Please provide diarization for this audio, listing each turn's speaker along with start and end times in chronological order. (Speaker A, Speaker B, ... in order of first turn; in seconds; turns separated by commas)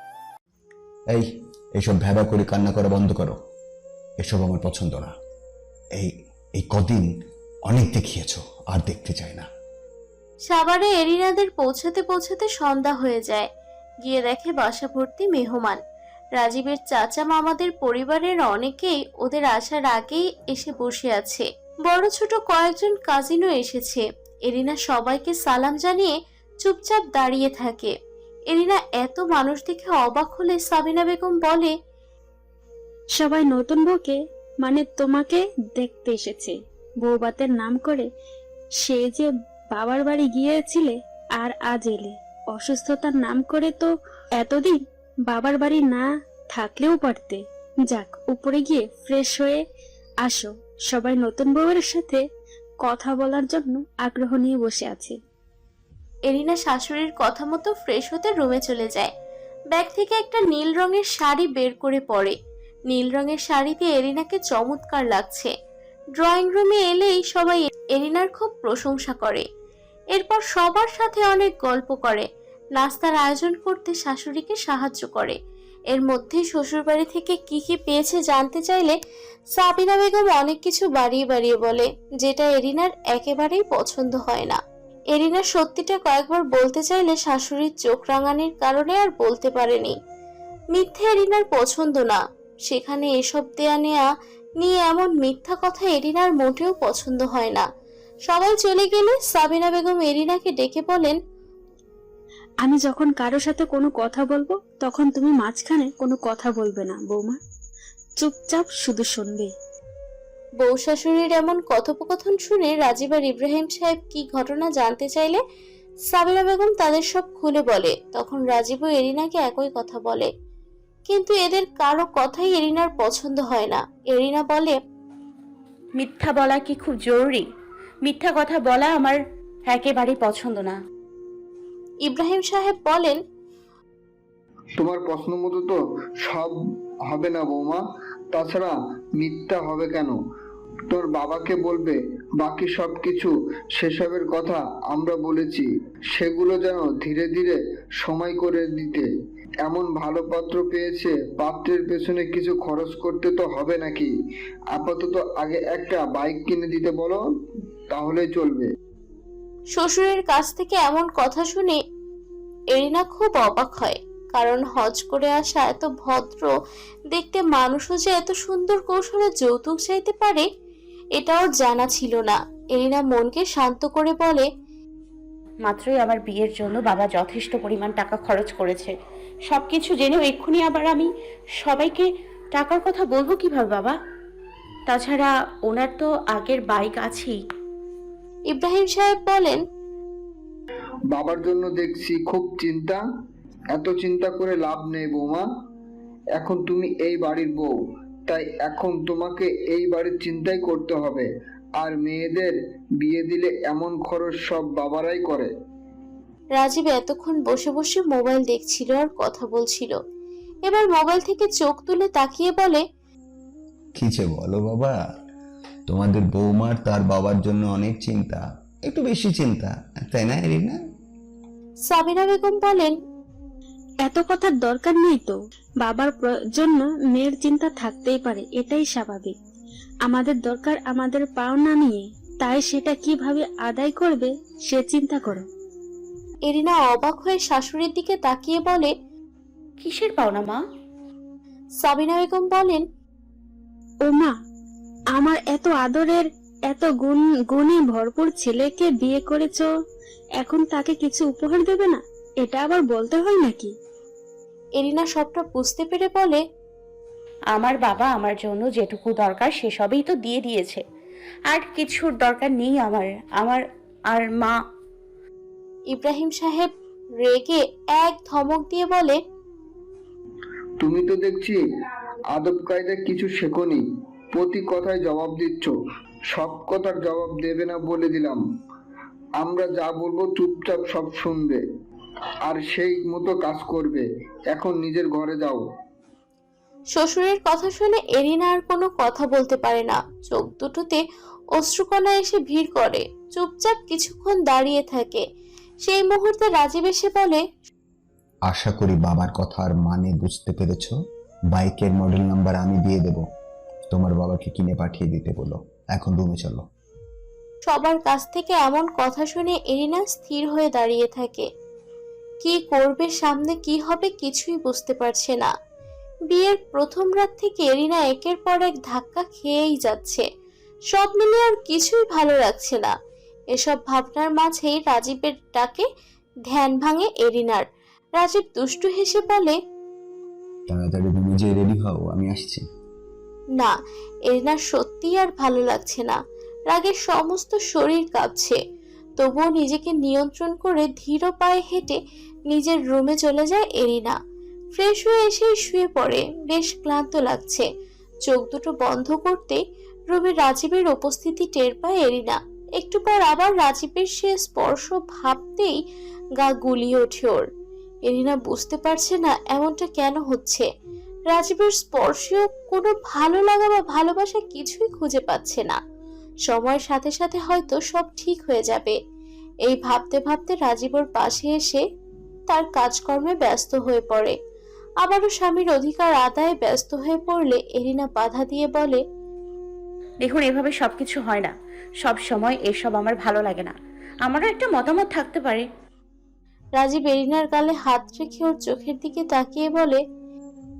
Speaker A: 1.1-3.4, Speaker A: 4.2-5.1, Speaker A: 6.0-7.1, Speaker A: 7.7-9.5, Speaker B: 10.5-13.5, Speaker B: 14.0-15.8, Speaker B: 16.4-27.9, Speaker B: 28.5-31.7, Speaker C: 33.1-38.0, Speaker C: 38.8-49.6, Speaker C: 50.2-52.2, Speaker C: 52.8-55.1, Speaker B: 56.3-59.1, Speaker B: 59.7-62.3, Speaker B: 62.9-65.5, Speaker B: 66.2-69.4, Speaker B: 70.1-75.4, Speaker B: 75.9-79.0, Speaker B: 79.5-84.6, Speaker B: 85.1-90.0, Speaker B: 90.7-94.0, Speaker B: 94.6-97.7, Speaker B: 98.3-101.2, Speaker C: 102.6-107.4, Speaker C: 108.2-109.5, Speaker B: 110.6-115.4, Speaker B: 116.1-120.3, Speaker B: 121.1-124.8, Speaker D: 126.0-127.4, Speaker D: 128.0-130.8, Speaker B: 132.0-133.2, Speaker E: 134.8-136.5, Speaker E: 137.1-140.1, Speaker E: 140.9-149.1, Speaker E: 149.6-154.1, Speaker E: 154.7-157.2, Speaker E: 157.9-158.7, Speaker B: 159.8-161.8, Speaker B: 162.7-166.5, Speaker B: 167.1-170.5, Speaker B: 171.2-174.4, Speaker D: 175.7-178.9, Speaker D: 179.5-181.1, Speaker D: 181.6-183.9, Speaker D: 184.9-187.4, Speaker B: 188.5-189.6, Speaker E: 191.1-193.0, Speaker E: 193.7-195.4, Speaker E: 196.3-197.7, Speaker E: 198.3-205.5, Speaker B: 206.6-209.9, Speaker B: 210.7-212.8, Speaker A: 213.9-214.9, Speaker A: 215.9-220.8, Speaker B: 221.9-222.9, Speaker C: 224.0-229.3, Speaker C: 230.1-235.4, Speaker B: 236.5-238.9, Speaker D: 239.8-240.6, Speaker B: 241.8-242.8, Speaker C: 244.1-244.3, Speaker C: 245.1-249.7, Speaker C: 250.4-253.7, Speaker B: 254.8-256.4, Speaker D: 257.5-260.8, Speaker D: 261.5-264.6, Speaker B: 265.9-266.7, Speaker B: 267.2-269.2, Speaker E: 270.8-271.6, Speaker E: 272.3-273.8, Speaker E: 274.3-275.7, Speaker E: 276.3-278.4, Speaker E: 279.4-281.6, Speaker E: 282.5-285.6, Speaker B: 286.9-291.0, Speaker B: 291.6-295.2, Speaker B: 295.8-297.4, Speaker A: 298.5-300.9, Speaker A: 301.5-303.2, Speaker A: 303.9-306.6, Speaker B: 307.7-311.4, Speaker B: 312.4-315.5, Speaker B: 316.3-320.2, Speaker B: 320.9-322.9, Speaker B: 323.5-325.9, Speaker B: 326.5-327.7, Speaker B: 328.2-329.6, Speaker A: 330.7-332.6, Speaker B: 334.3-336.2, Speaker B: 336.7-338.6, Speaker B: 339.2-342.0, Speaker B: 342.5-344.2, Speaker B: 344.8-347.7, Speaker B: 348.3-355.8, Speaker B: 356.4-357.4, Speaker B: 358.1-360.6, Speaker B: 361.3-365.8, Speaker B: 366.5-369.0, Speaker B: 369.6-371.8, Speaker B: 372.5-374.3, Speaker B: 375.0-379.0, Speaker D: 380.2-383.7, Speaker D: 384.2-385.7, Speaker B: 386.8-390.0